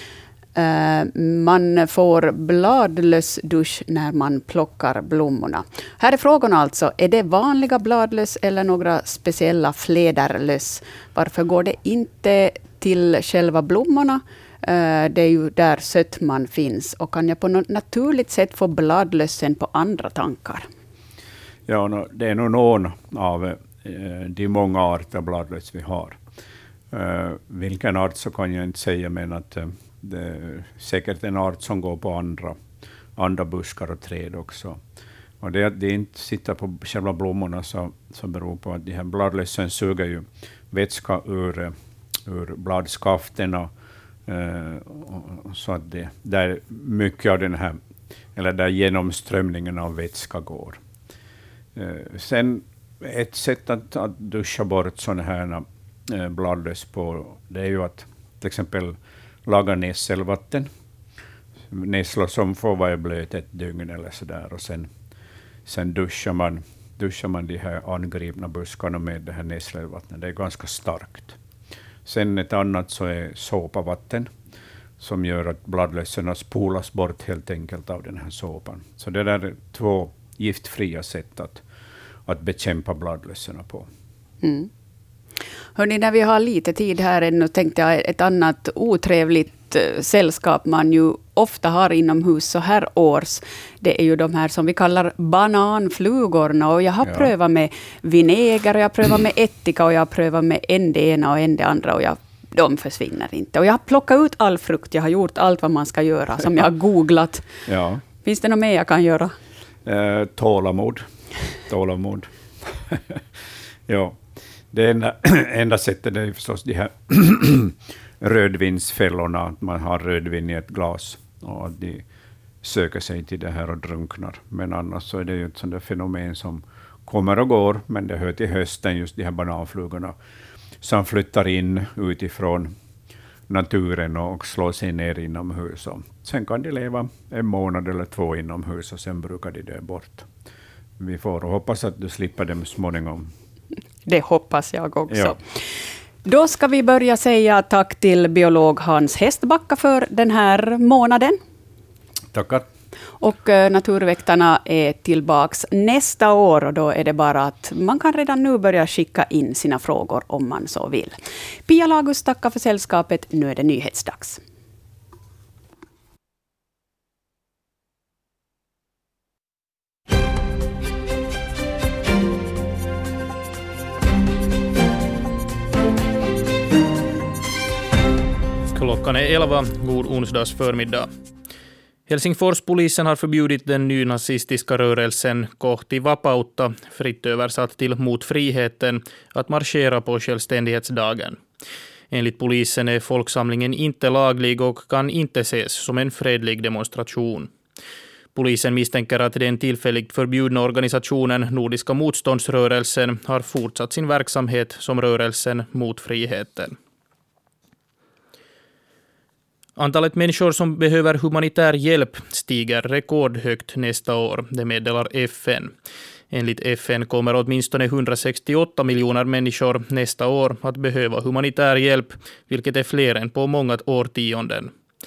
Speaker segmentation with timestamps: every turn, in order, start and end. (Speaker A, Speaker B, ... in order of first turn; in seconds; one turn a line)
Speaker A: 0.6-20.7
Speaker B: 21.7-26.2
Speaker B: 26.9-32.6
Speaker B: 33.2-34.8
Speaker B: 35.4-41.7
Speaker B: 42.2-43.7
Speaker B: 44.3-47.8
Speaker B: 48.4-50.8
Speaker B: 51.8-60.7
Speaker B: 61.7-64.9
Speaker B: 65.7-71.4
Speaker B: 72.0-74.3
Speaker B: 75.0-81.6
Speaker B: 82.3-83.9
Speaker A: 84.4-84.7
Speaker A: 85.8-107.5
Speaker B: 107.7-108.0
Speaker A: 108.2-109.3
Speaker B: 109.8-111.1
Speaker B: 111.6-122.1
Speaker B: 122.6-130.2
Speaker B: 130.8-132.8
Speaker B: 133.5-140.3
Speaker B: 141.0-143.3
Speaker A: 144.1-145.6
Speaker B: 145.1-145.4
Speaker A: 146.2-151.4
Speaker B: 152.3-152.7
Speaker A: 153.2-164.4
Speaker C: 178.7-181.1
Speaker C: 182.1-191.4
Speaker C: 192.1-197.5
Speaker C: 198.3-206.8
Speaker C: 209.8-215.7
Speaker C: 216.3-224.7